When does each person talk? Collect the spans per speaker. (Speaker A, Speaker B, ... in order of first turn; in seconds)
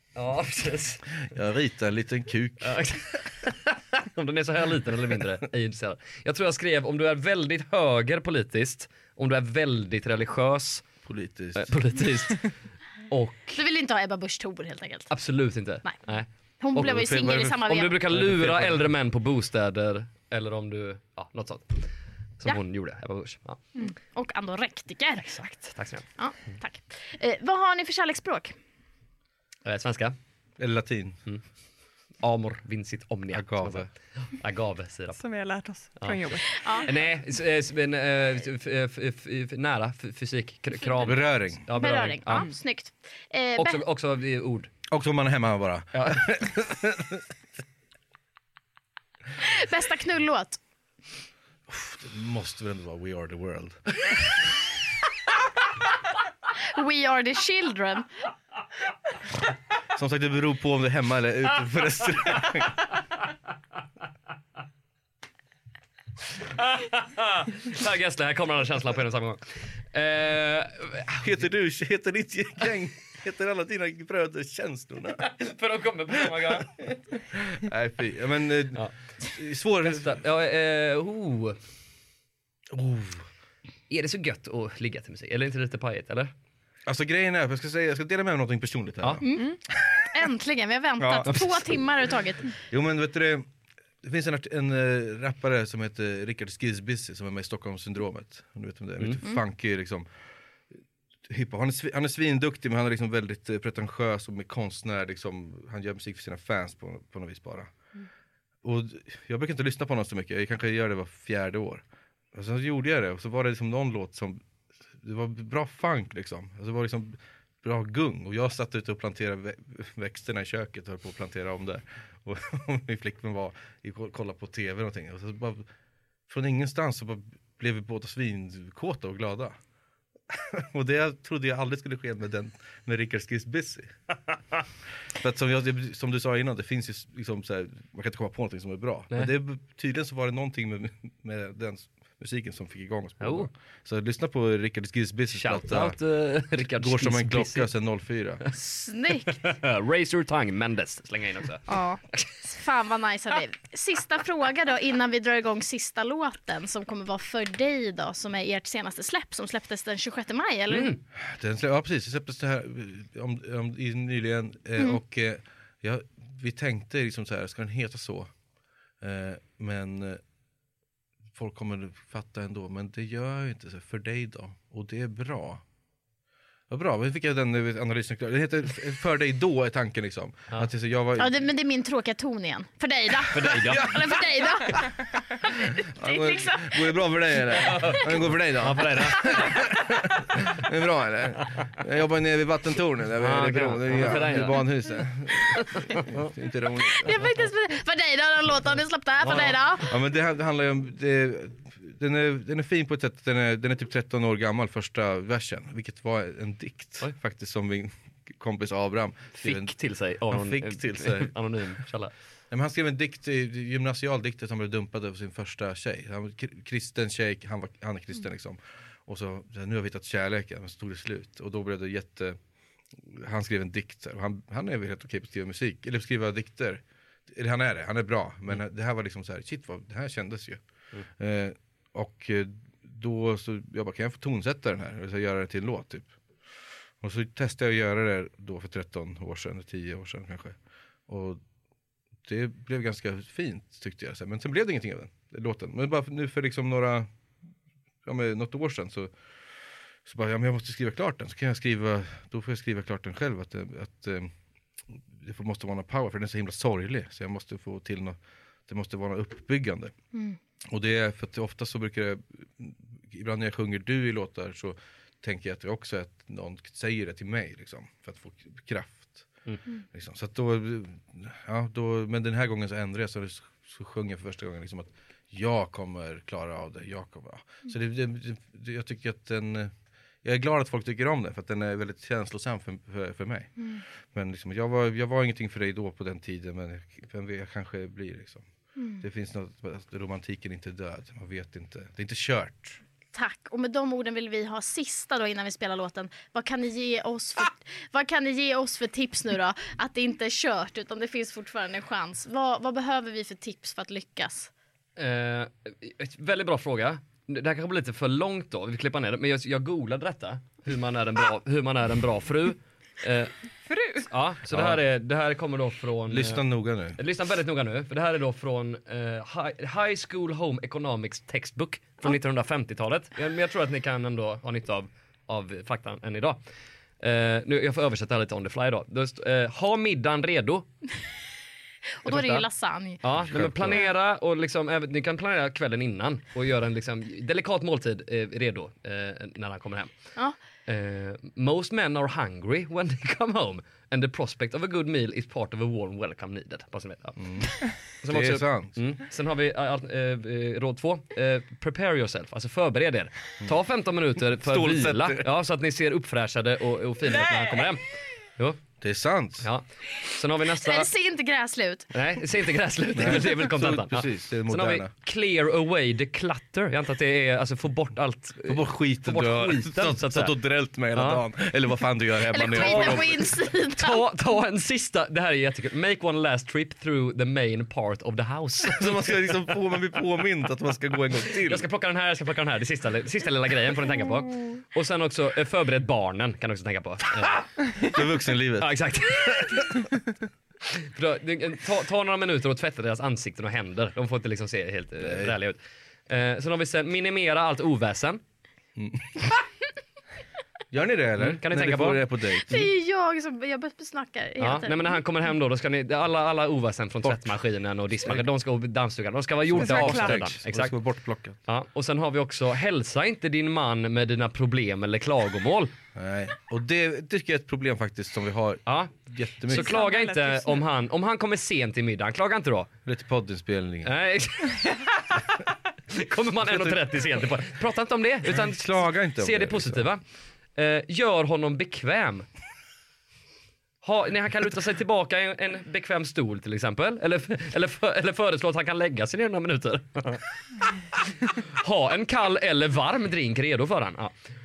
Speaker A: 0.1-1.0, 2.6-10.8, 11.6-12.5, 13.1-13.6, 15.1-23.6, 25.2-26.1, 29.6-30.1, 32.2-35.2, 36.0-42.5, 43.6-44.7, 45.9-46.2, 66.5-71.2, 75.2-77.0, 79.8-81.6, 83.9-86.3, 143.2-143.5, 145.3-147.7, 149.3-152.3, 160.7-161.0, 183.3-183.9, 187.7-189.6, 193.2-194.6, 195.5-196.0, 199.2-199.6, 209.4-212.1, 305.0-313.3, 314.1-316.4, 317.0-326.4, 327.0-330.7, 332.1-332.4, 333.0-339.9, 340.6-357.9, 359.4-360.9, 361.9-370.3, 370.9-371.2, 372.5-378.9, 381.5-387.9, 388.6-389.8, 390.8-398.2, 401.2-402.0, 404.4-410.7, 411.5-415.7, 418.7-418.9, 419.5-422.7, 423.9-425.4, 425.9-430.0, 430.6-432.2, 433.8-440.2, 440.9-444.1
Speaker B: 1.2-2.8, 11.0-11.7, 16.8-18.9, 30.6-31.2, 33.3-33.9, 41.0-41.6, 44.9-47.2, 51.7-54.2, 60.0-62.8, 71.2-75.2, 77.3-80.2, 82.7-83.3, 86.9-89.2, 91.0-91.7, 92.7-93.5, 94.0-100.1, 101.3-107.7, 108.6-111.8, 112.3-114.4, 115.0-125.7, 126.3-129.6, 130.3-133.9, 135.2-146.0, 146.7-148.4, 161.2-168.3, 169.0-170.2, 171.3-175.6, 176.7-181.4, 183.6-184.0, 185.8-197.2, 199.8-209.7, 210.3-211.3, 212.5-222.4, 223.0-230.6, 231.2-236.1, 237.0-240.6, 241.1-241.4, 242.2-247.1, 248.0-249.1, 250.0-254.3, 254.9-259.9, 260.7-269.3, 269.9-279.7, 280.2-283.5, 284.1-288.4, 289.0-292.8, 314.5-314.8, 316.1-317.0, 333.2-333.9, 347.2-347.5, 348.1-348.8, 354.4-355.3, 358.8-359.5, 362.9-364.9, 368.4-373.1, 378.8-381.6, 387.8-388.8, 389.3-389.6, 395.0-395.3, 398.8-399.3, 400.7-402.7, 407.0-407.3, 409.5-411.4, 415.9-419.8, 422.9-423.9, 426.4-426.9, 428.3-429.8
Speaker C: 13.6-15.1, 16.6-18.0, 23.8-25.5, 26.2-28.5, 36.6-36.9, 41.7-43.8, 49.4-50.6, 56.6-58.1, 89.2-89.6, 90.1-92.5, 148.5-149.4, 151.7-161.0, 181.2-186.9, 187.7-188.1, 196.8-199.9, 288.8-289.0, 293.1-304.5, 332.0-333.0, 360.6-361.9, 372.3-374.0, 402.5-405.0
Speaker D: 35.1-36.9, 313.7-314.1, 409.6-410.4, 419.5-420.6